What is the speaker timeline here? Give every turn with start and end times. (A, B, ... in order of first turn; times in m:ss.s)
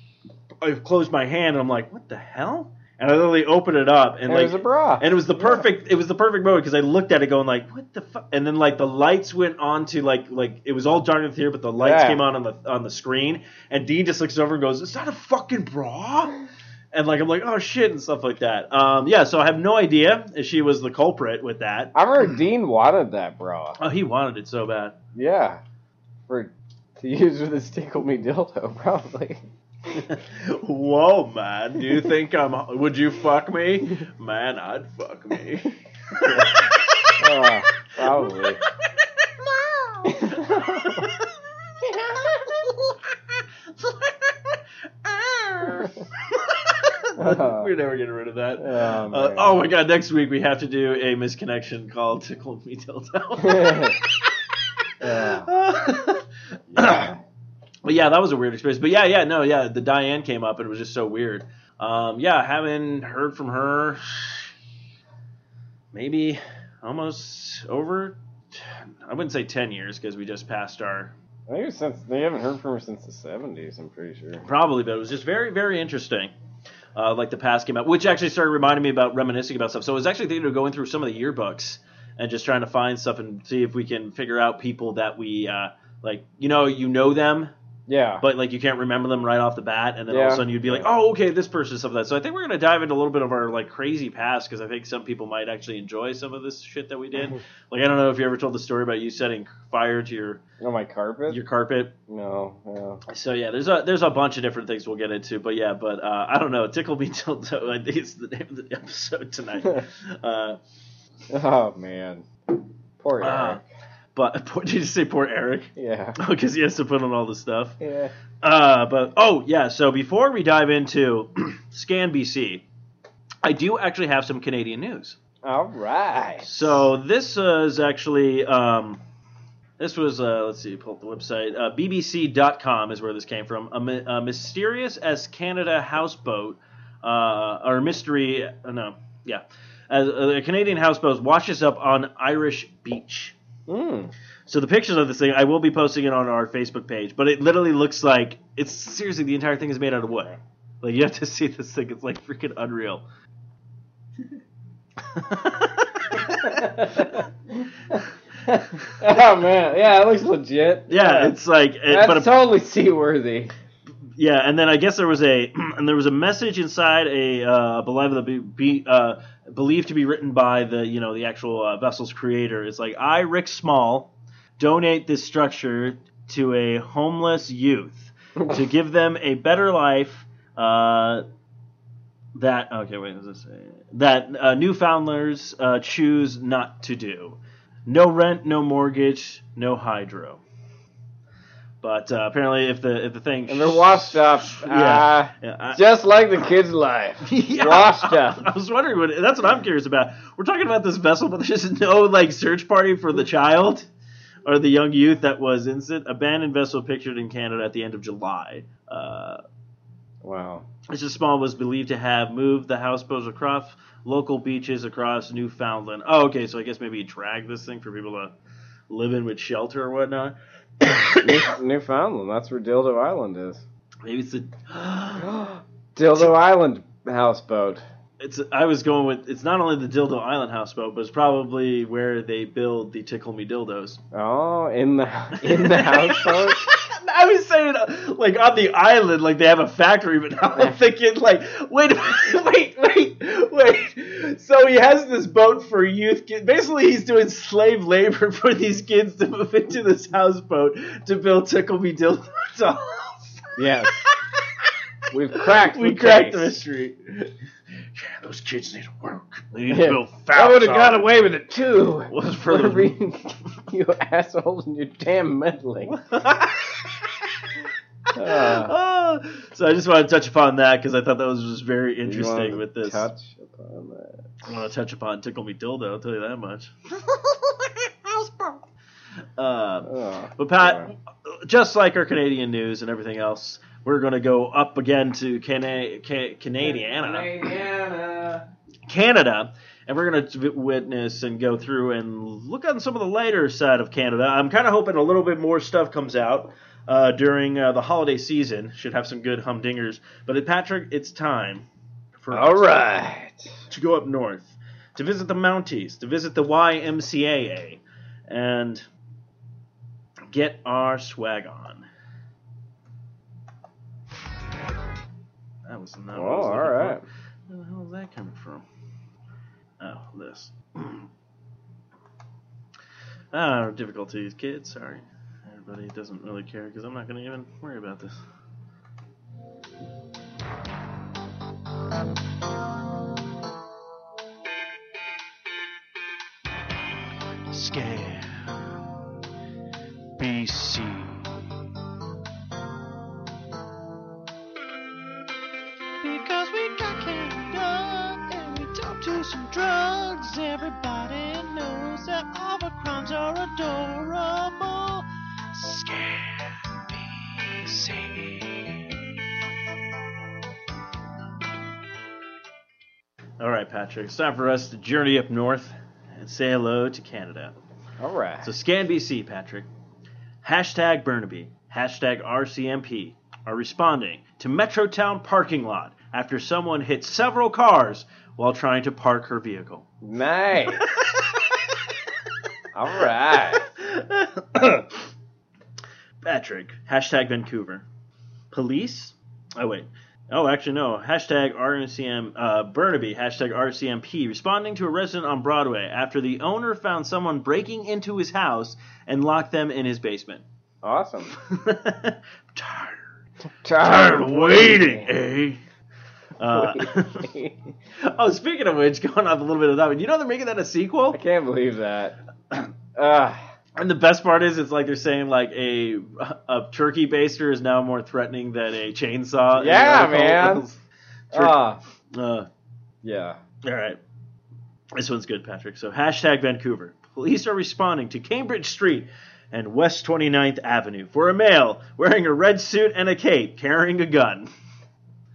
0:00.6-0:16.4 A
0:04.3-0:05.7 B
0:11.8-0:12.2 B
0:16.9-0:21.9 A
0:21.9-0:23.8 B
0:23.8-0:25.0 A
0:25.1-0:25.6 B
0:26.3-0:29.4 B
0:29.9-0:37.2 A
0:37.2-0:38.6 B
0:38.2-0:38.5 A
0:39.4-0:43.0 A
0:40.0-0:41.0 B
0:43.7-0:54.4 A
0:47.2-0:47.7 B
0:48.6-0:49.6 B
0:53.4-0:54.0 B
0:55.0-0:55.5 B
0:55.2-0:57.1 A
0:56.7-0:57.2 B
0:57.8-1:04.5 A
1:05.9-1:11.1 A
1:11.5-1:14.4 B
1:14.4-1:16.3 A
1:16.9-1:27.5 A
1:27.9-1:28.2 B
1:28.2-1:40.4 A
1:30.1-1:30.9 B
1:40.6-1:41.4 B
1:41.3-1:41.9 A
1:42.1-1:43.0 B
1:43.1-1:50.6 A
1:51.3-1:52.2 B
1:53.0-1:53.6 B
1:53.2-1:53.6 A
1:54.1-1:57.8 A
1:55.8-1:56.2 B
1:57.8-1:58.1 B
1:58.4-2:02.6 A
2:03.4-2:05.2 A
2:05.4-2:06.8 B
2:06.4-2:09.0 A
2:09.8-2:23.4 A
2:23.7-2:24.1 B
2:24.4-2:33.0 A
2:35.0-2:37.2 A
2:36.4-2:41.4 B
2:40.9-2:42.4 A
2:41.9-2:43.5 B
2:44.2-3:01.2 A
3:02.3-3:10.4 A
3:11.8-3:15.8 A
3:13.5-3:18.4 B
3:17.2-3:23.9 A
3:24.4-3:29.4 A
3:30.2-3:30.6 B
3:30.9-3:38.3 A
3:38.9-3:41.5 A
3:41.2-3:43.6 B
3:44.0-3:45.4 A
3:45.2-3:47.8 B
3:48.2-3:54.0 A
3:54.1-3:56.7 B
3:55.4-4:14.7 A
4:13.6-4:14.0 B
4:15.1-4:16.5 B
4:15.3-4:17.3 A
4:17.9-4:21.1 A
4:19.7-4:26.0 B
4:22.1-4:22.9 A
4:25.9-4:27.5 A
4:28.1-4:33.1 A
4:28.1-4:28.7 B
4:32.0-4:34.4 B
4:34.4-4:38.6 A
4:39.4-4:47.4 A
4:39.8-4:40.9 B
4:46.6-4:48.4 B
4:48.9-5:01.7 A
5:02.2-5:02.7 A
5:02.3-5:03.5 B
5:03.7-5:08.8 A
5:10.3-5:11.9 A
5:15.6-5:18.6 A
5:16.1-5:17.0 B
5:19.8-5:21.1 A
5:23.3-5:28.2 A
5:37.5-5:38.7 C
5:40.2-5:41.4 C
5:46.0-5:58.9 C
6:03.4-6:07.6 A
6:08.0-6:08.5 B
6:08.4-6:09.7 A
6:10.4-6:19.9 A
6:20.0-6:20.8 B
6:20.7-6:21.6 A
6:22.7-6:23.6 B
6:23.3-6:25.0 A
6:26.2-6:27.8 A
6:28.5-6:40.4 A
6:40.8-6:41.3 B
6:41.3-6:43.2 A
6:43.6-6:45.1 B
6:43.8-6:45.6 A
6:46.4-6:47.3 A
6:46.5-6:47.6 B
6:48.0-6:51.2 A
6:51.1-6:52.2 B
6:52.9-6:53.4 B
6:53.8-7:01.6 A
6:59.6-7:00.6 B
7:01.3-7:01.8 B
7:02.1-7:02.5 A
7:03.0-7:03.4 B
7:03.6-7:04.0 A
7:04.9-7:14.5 A